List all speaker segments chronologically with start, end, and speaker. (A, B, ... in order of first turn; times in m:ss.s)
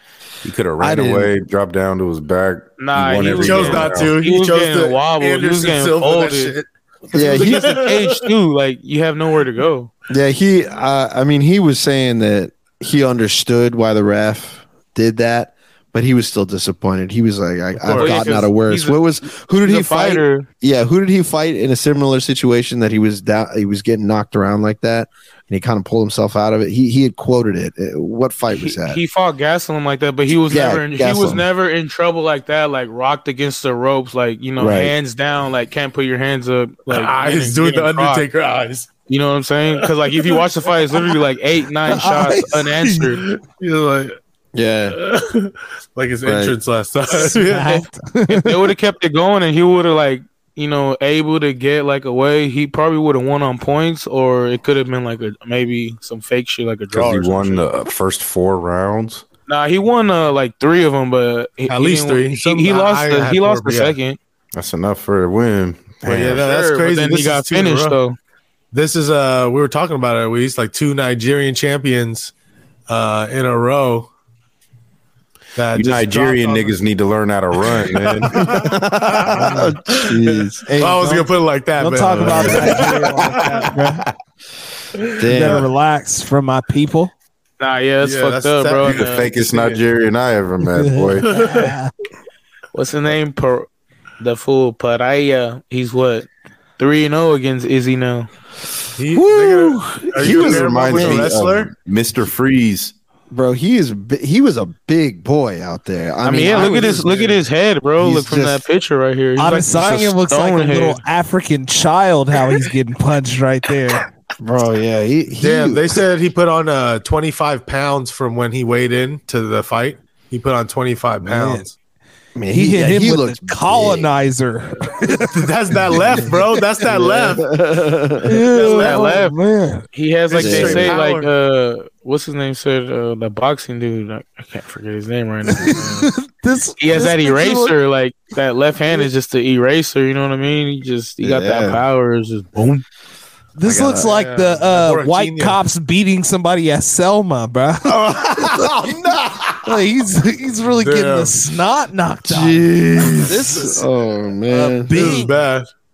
0:00.4-0:04.1 A
0:00.8-0:01.3 B
0:02.8-0:06.6 C
0:03.4-0:08.2 D
0:07.1-0:07.8 B
0:07.2-0:09.9 C
0:10.1-0:29.0 B
0:17.8-0:18.2 D
0:17.9-0:20.5 C
0:28.5-0:38.2 C
0:30.5-0:31.4 B
0:34.6-0:34.9 B
0:36.9-0:38.9 D
0:39.1-0:43.2 C
0:39.8-0:40.4 D
0:41.8-0:42.7 E
0:43.1-0:44.2 D
0:44.5-0:45.0 B
0:44.9-0:47.8 D
0:46.2-0:46.6 B
0:47.1-0:48.6 E
0:48.3-0:57.7 C
0:56.9-0:59.2 A
0:59.5-1:04.2 C
1:01.7-1:04.0 D
1:04.6-1:06.5 A
1:06.0-1:08.0 D
1:06.3-1:08.2 C
1:08.7-1:12.3 D
1:12.9-1:14.1 D
1:15.6-1:16.8 D
1:15.7-1:18.5 A
1:17.6-1:23.7 D
1:18.4-1:21.2 B
1:21.0-1:21.2 E
1:21.8-1:24.0 E
1:22.0-1:22.8 B
1:25.2-1:25.6 B
1:25.3-1:27.1 E
1:25.4-1:25.6 D
1:27.6-1:29.3 C
1:28.0-1:29.8 D
1:28.8-1:31.3 A
1:30.7-1:31.9 E
1:31.3-1:31.7 D
1:32.7-1:33.7 C
1:34.2-1:36.3 C
1:36.8-1:38.3 C
1:39.0-1:41.7 D
1:39.1-1:41.3 B
1:40.2-1:42.9 A
1:43.3-1:47.3 B
1:46.2-1:51.0 C
1:46.8-1:47.3 D
1:48.0-1:48.6 B
1:49.4-1:54.1 E
1:54.4-1:56.0 B
1:55.4-2:01.7 D
2:01.2-2:01.6 E
2:02.4-2:04.1 B
2:02.5-2:05.4 E
2:05.2-2:07.5 D
2:06.8-2:08.4 B
2:08.2-2:09.8 E
2:08.5-2:09.0 D
2:08.6-2:09.4 C
2:09.9-2:16.0 C
2:10.3-2:11.3 D
2:10.4-2:11.0 B
2:15.6-2:17.7 E
2:16.8-2:22.8 C
2:21.2-2:21.8 B
2:23.6-2:28.6 E
2:23.6-2:24.1 B
2:24.0-2:25.6 D
2:27.8-2:29.8 B
2:29.6-2:33.8 E
2:30.8-2:31.4 D
2:32.2-2:35.2 B
2:34.5-2:35.3 E
2:34.9-2:35.7 D